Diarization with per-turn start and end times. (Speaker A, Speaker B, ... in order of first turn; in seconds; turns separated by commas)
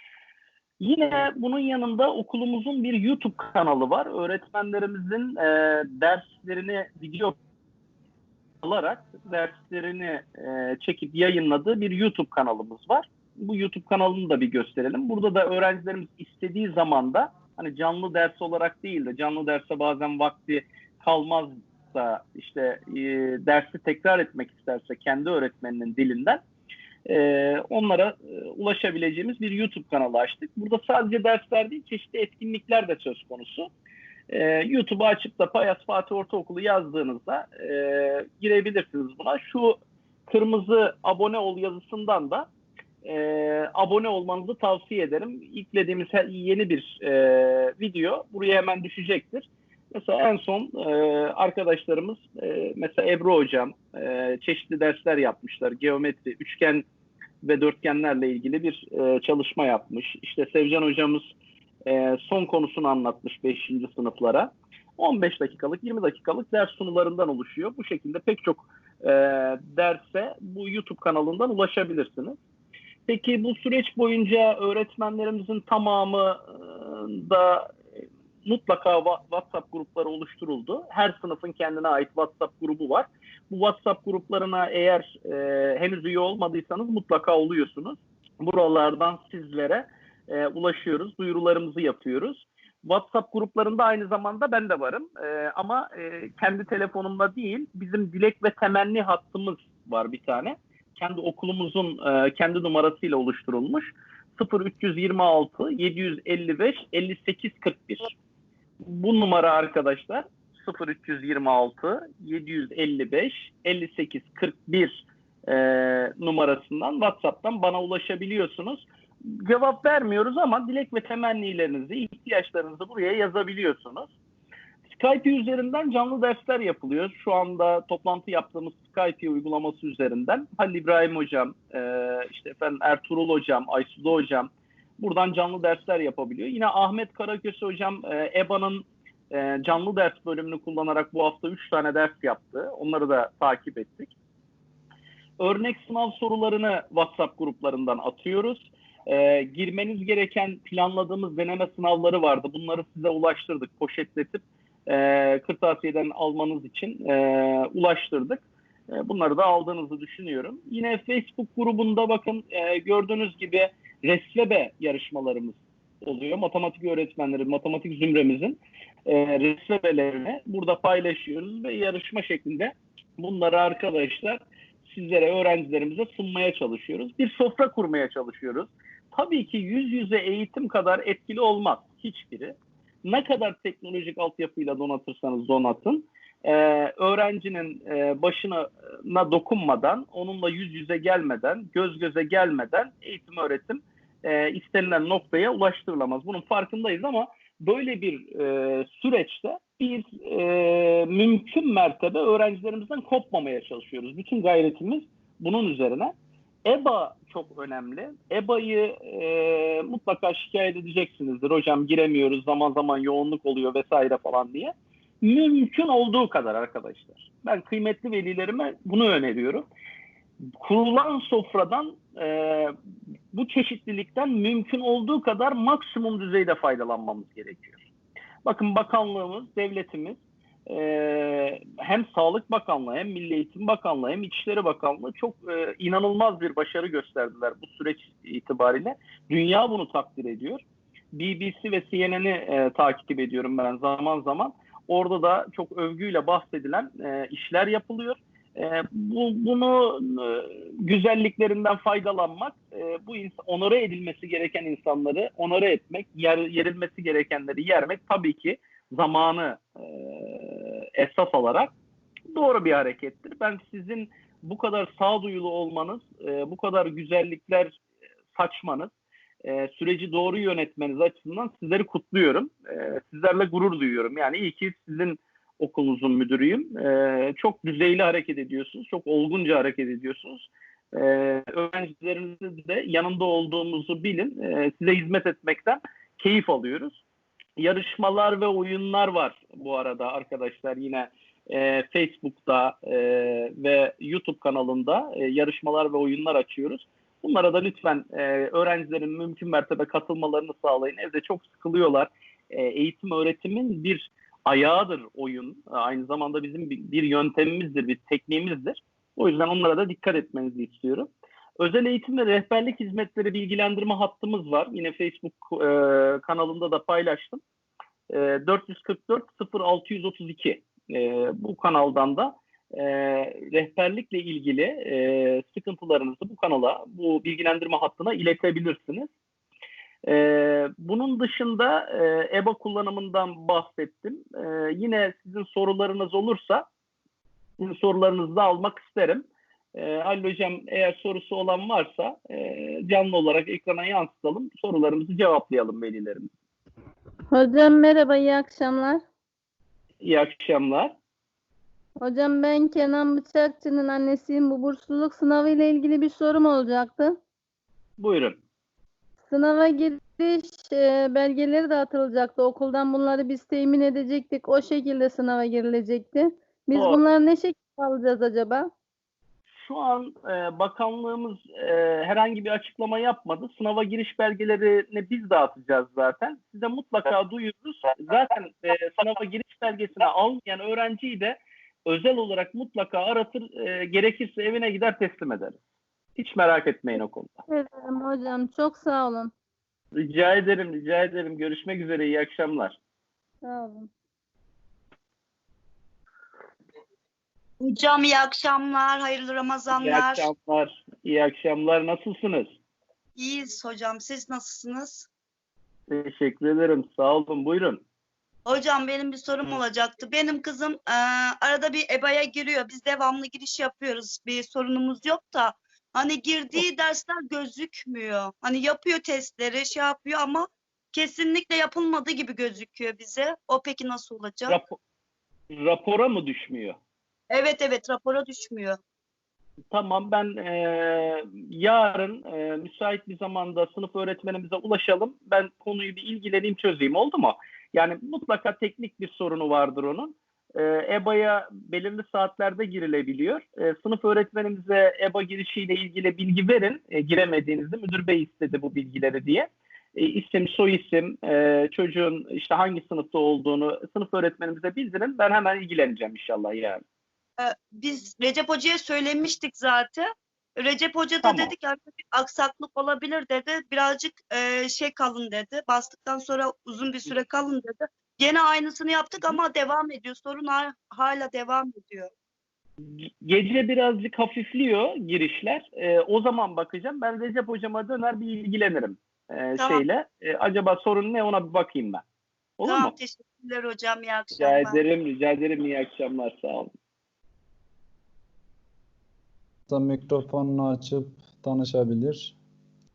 Speaker A: 0.8-7.4, Speaker A: 8.6-26.4, Speaker A: 27.1-33.7, Speaker A: 34.3-42.5, Speaker A: 43.0-56.9, Speaker A: 57.4-61.3, Speaker A: 61.8-72.4, Speaker A: 73.1-77.8, Speaker A: 78.5-108.1, Speaker A: 108.8-124.1, Speaker A: 124.9-144.1, Speaker A: 145.4-219.7, Speaker A: 220.4-222.7, Speaker A: 223.3-227.8, Speaker A: 228.4-261.7, Speaker A: 262.3-267.8, Speaker A: 268.3-268.9, Speaker A: 269.4-287.0, Speaker A: 287.6-317.4, Speaker A: 318.1-329.1, Speaker A: 330.1-336.7, Speaker A: 337.6-346.3, Speaker B: 347.3-349.0, Speaker A: 350.0-350.9, Speaker B: 352.0-357.2, Speaker A: 358.0-358.4, Speaker B: 359.3-368.7, Speaker A: 366.8-367.0, Speaker A: 369.6-385.6, Speaker A: 386.2-387.4, Speaker B: 387.5-389.3, Speaker A: 390.0-392.8, Speaker B: 393.4-393.9, Speaker C: 397.6-400.3, Speaker A: 399.7-402.6, Speaker C: 403.2-405.1, Speaker A: 405.9-407.8, Speaker C: 408.5-424.6, Speaker A: 424.5-424.8, Speaker A: 425.5-426.8, Speaker C: 427.3-428.8, Speaker A: 429.7-456.8, Speaker C: 457.4-472.1, Speaker A: 461.2-461.5, Speaker A: 472.8-482.0, Speaker C: 479.6-479.8, Speaker A: 482.6-482.9, Speaker C: 482.6-484.8, Speaker A: 484.4-486.7, Speaker D: 489.7-492.4